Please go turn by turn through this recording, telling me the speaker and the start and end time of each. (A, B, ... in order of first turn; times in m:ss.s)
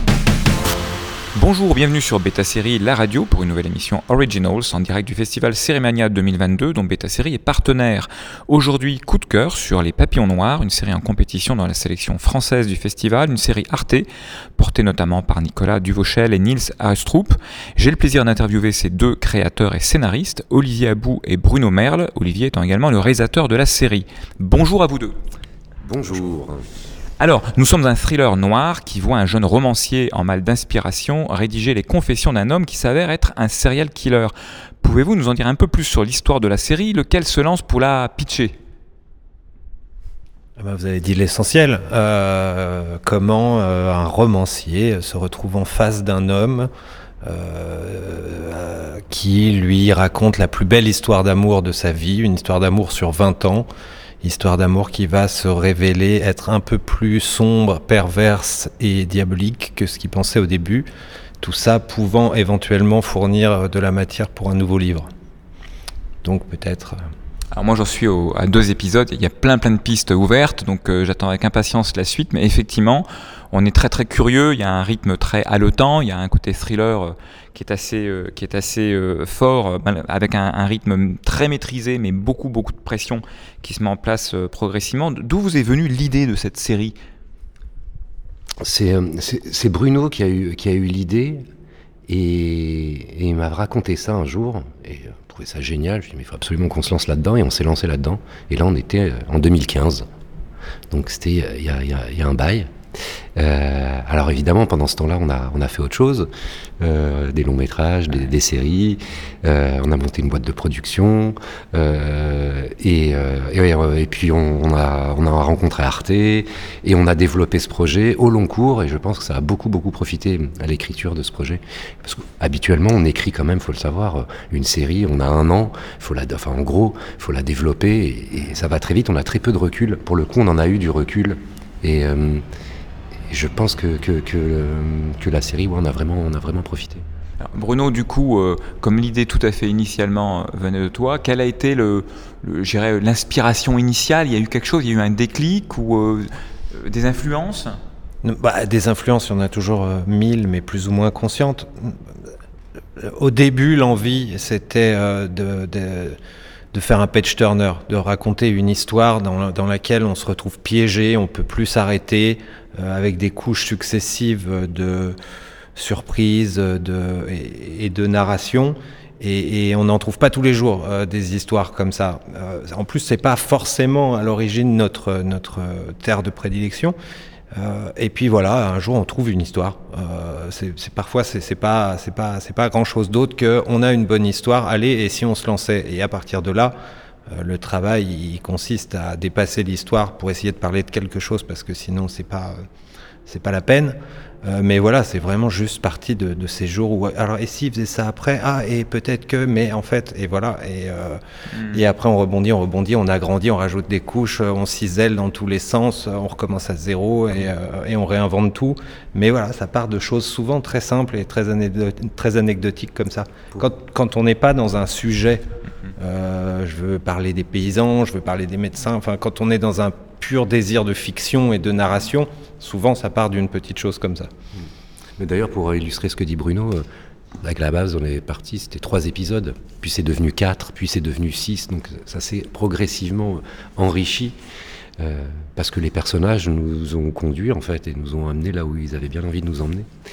0:01.4-0:25.2 A
0:25.8-0:26.7 B
0:27.2-0:38.6 A
0:40.6-0:46.7 C
0:47.2-0:53.7 C
0:54.2-1:00.9 C
1:01.4-1:05.1 C
1:06.2-1:07.0 C
1:07.5-1:27.0 A
1:28.6-1:31.4 B
1:32.1-1:40.1 B
1:40.9-1:42.7 B
1:43.4-2:12.4 B
2:13.3-2:17.0 B
2:17.4-2:27.8 A
2:28.2-2:32.0 C
2:33.0-2:36.2 C
2:36.7-2:45.2 C
2:45.8-2:57.0 C
2:57.6-3:06.8 C
3:07.3-3:12.6 C
3:13.3-3:35.4 C
3:21.6-3:21.8 A
3:36.0-3:44.3 C
3:45.2-3:46.8 B
3:47.4-3:54.4 B
3:55.0-3:59.9 B